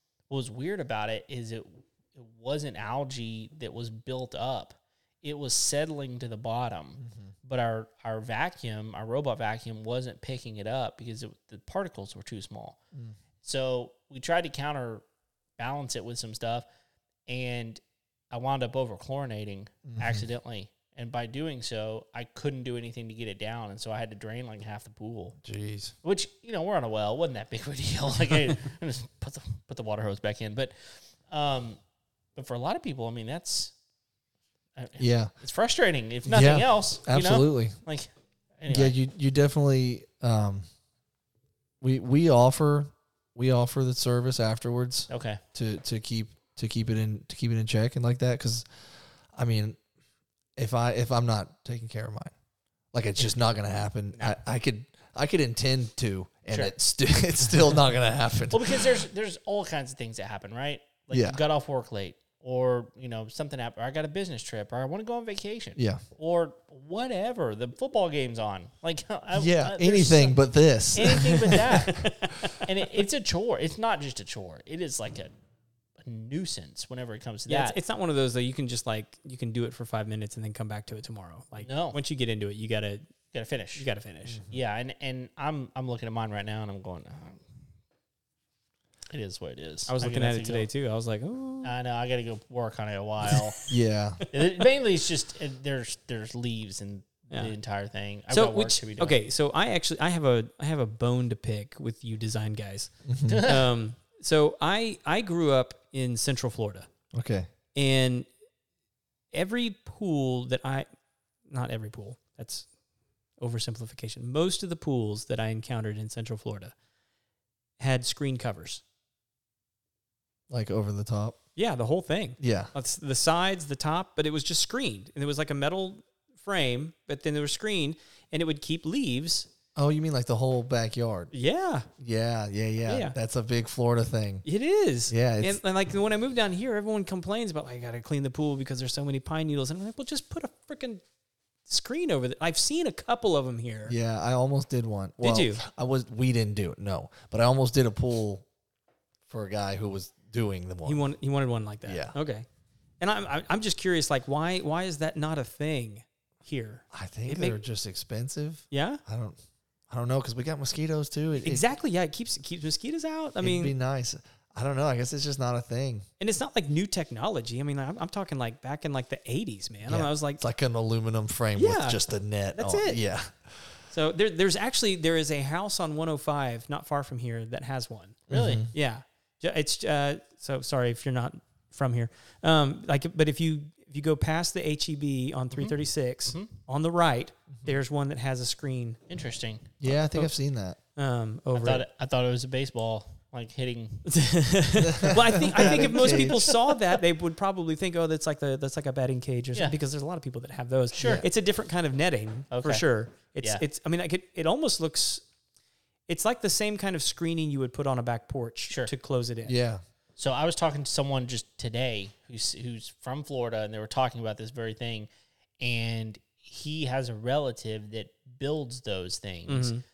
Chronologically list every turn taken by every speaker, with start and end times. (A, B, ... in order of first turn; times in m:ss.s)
0:00.3-0:12.8 A
0:07.0-0:07.3 B
0:13.4-0:15.0 A
0:15.6-0:16.7 A
0:17.3-0:17.8 A
0:18.3-0:25.4 A
0:19.9-0:20.3 B
0:25.4-0:26.0 B
0:26.0-0:31.8 A
0:32.4-0:33.7 A
0:34.8-0:38.9 A
0:35.0-0:35.3 B
0:36.3-0:37.8 B
0:38.7-0:40.6 B
0:41.8-0:48.6 B
0:45.1-0:45.4 A
0:49.3-0:49.8 B
0:50.6-0:52.3 B
0:52.9-0:59.0 B
0:58.5-1:10.4 A
1:01.1-1:01.4 B
1:05.8-1:06.0 B
1:09.3-1:12.1 B
1:10.9-1:15.3 A
1:11.7-1:12.6 C
1:16.0-1:17.8 A
1:17.5-1:23.1 C
1:21.6-1:22.0 A
1:23.3-1:23.9 A
1:23.8-1:24.4 C
1:24.5-1:27.4 A
1:29.1-1:30.7 A
1:29.9-1:31.7 C
1:31.6-1:33.6 A
1:33.3-1:33.6 C
1:33.7-1:34.2 B
1:34.3-1:39.2 A
1:38.3-1:46.9 C
1:43.0-1:43.4 B
1:43.3-1:43.7 A
1:47.1-1:47.5 B
1:47.8-1:48.3 C
1:49.3-1:50.9 C
1:51.5-1:52.7 C
1:53.4-1:56.8 C
1:57.8-1:58.8 C
2:00.5-2:01.4 B
2:01.6-2:09.5 C
2:02.4-2:02.7 B
2:09.8-2:11.3 B
2:11.3-2:11.9 C
2:12.0-2:14.4 B
2:12.9-2:13.2 C
2:14.4-2:21.0 C
2:15.1-2:15.6 B
2:21.7-2:24.0 C
2:23.9-2:28.5 B
2:25.2-2:25.6 C
2:29.3-2:31.0 B
2:30.8-2:32.5 C
2:31.9-2:32.2 B
2:33.0-2:37.6 C
2:36.9-2:39.4 B
2:38.7-2:39.0 C
2:39.9-2:41.6 B
2:41.4-2:43.7 C
2:43.4-2:46.1 B
2:46.2-2:50.4 C
2:49.9-2:53.7 B
2:51.6-2:52.0 C
2:52.5-2:53.0 C
2:53.9-3:09.0 C
2:58.3-2:58.7 B
2:58.3-2:58.7 A
3:09.1-3:09.7 A
3:09.8-3:10.8 B
3:11.0-3:11.8 C
3:11.5-3:14.1 A
3:14.0-3:25.2 C
3:14.8-3:16.4 B
3:15.4-3:16.6 A
3:20.9-3:21.2 A
3:21.0-3:21.2 B
3:22.5-3:23.6 A
3:26.1-3:29.6 C
3:29.4-3:29.8 B
3:30.2-3:35.1 A
3:35.6-3:39.8 A
3:39.5-3:39.8 C